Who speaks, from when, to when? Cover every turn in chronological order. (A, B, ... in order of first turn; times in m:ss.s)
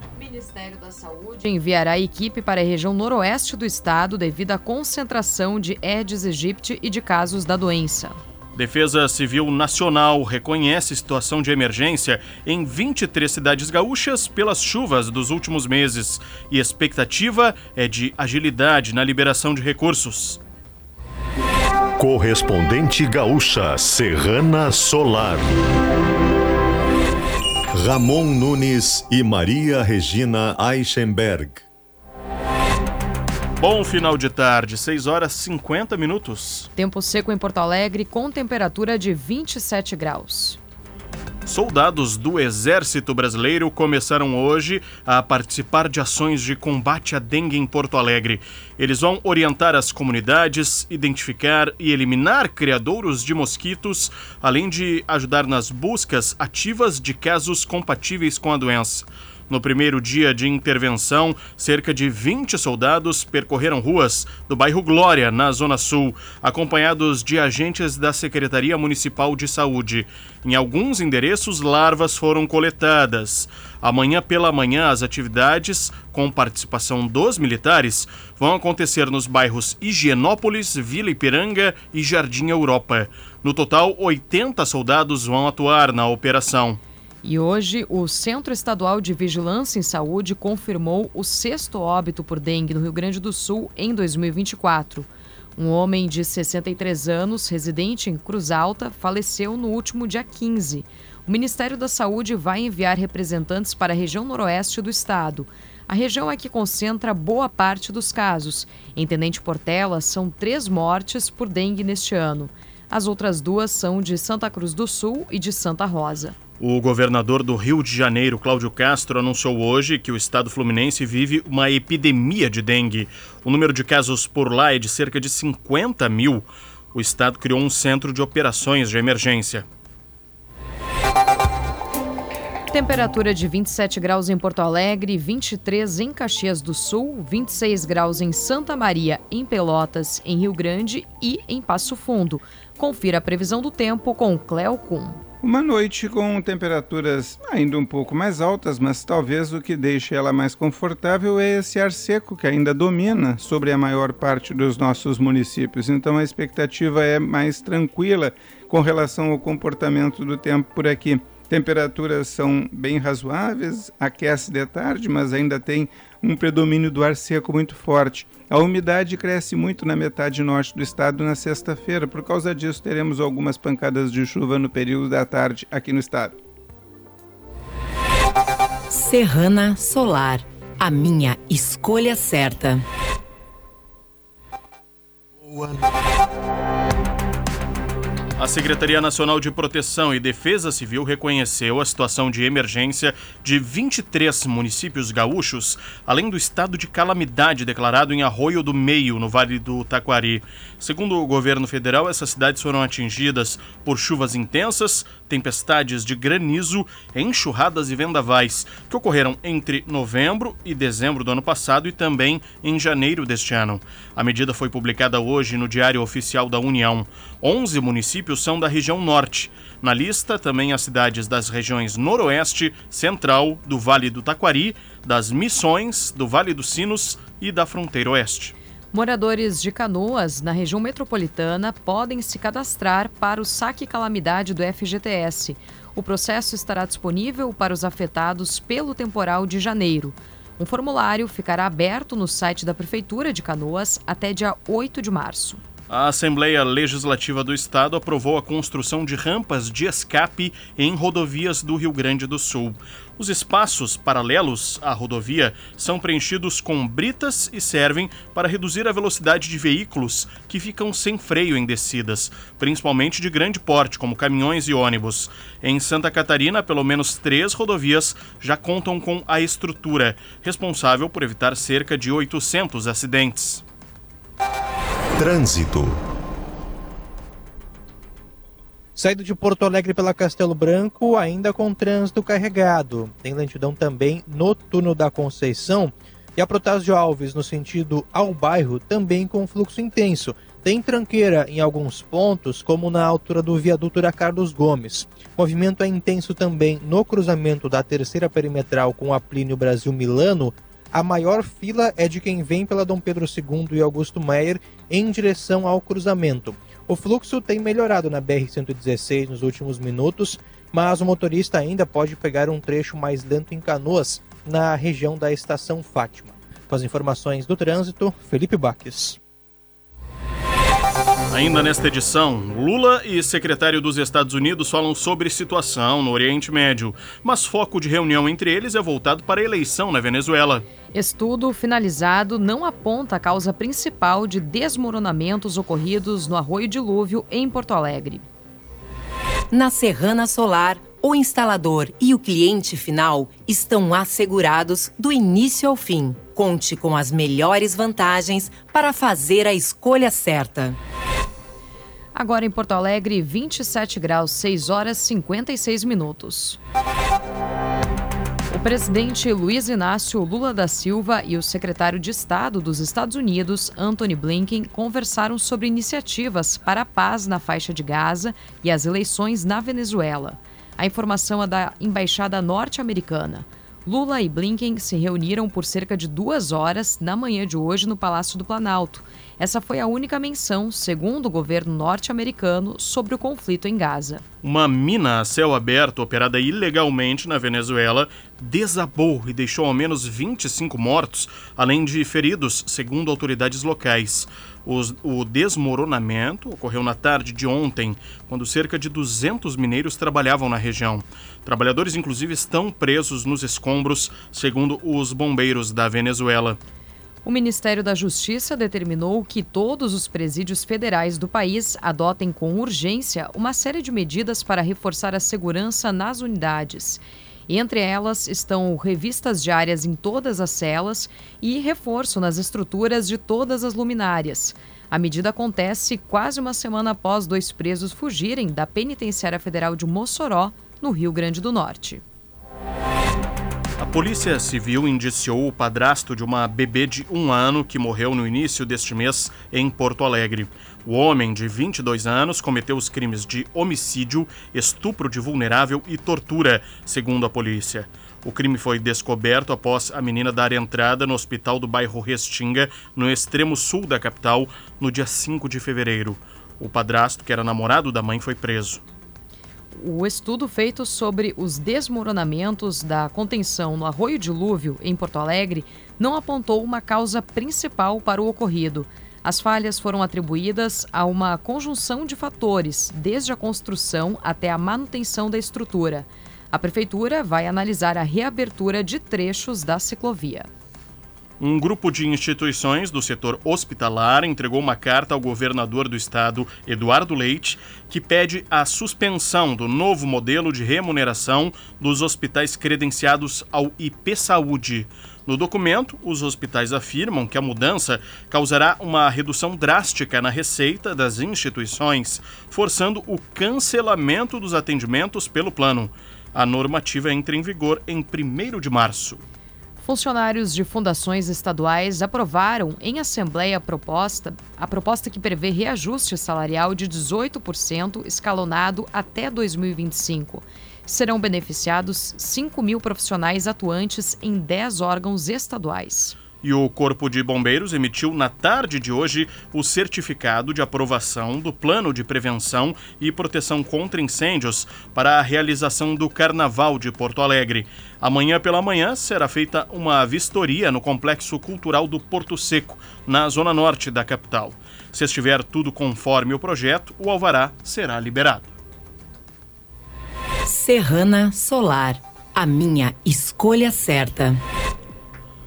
0:00.2-0:08.2 A
0:08.5-0:20.4 B
0:22.0-0:25.6 C
0:27.7-0:31.6 C
0:33.6-0:36.7 B
0:36.8-0:40.6 A
0:41.4-1:26.8 B
1:27.2-1:56.4 A
1:56.6-2:09.6 B
2:12.7-2:25.2 A
2:25.4-2:56.4 D
2:58.9-3:02.8 E
3:08.4-3:48.5 B
3:48.9-4:05.6 A
4:05.9-4:33.6 B
4:35.2-4:36.0 C
4:39.0-5:19.2 F
5:21.3-5:30.6 B
5:30.9-5:38.2 A
5:39.5-5:50.8 E
5:52.1-5:56.6 A
5:58.5-6:24.2 A
6:24.4-6:46.6 B
6:47.2-7:12.0 A
7:13.8-7:38.8 B
7:39.7-8:00.5 A
8:01.4-8:29.2 B
8:29.8-8:46.2 A
8:46.4-9:08.5 B
9:10.4-9:14.4 E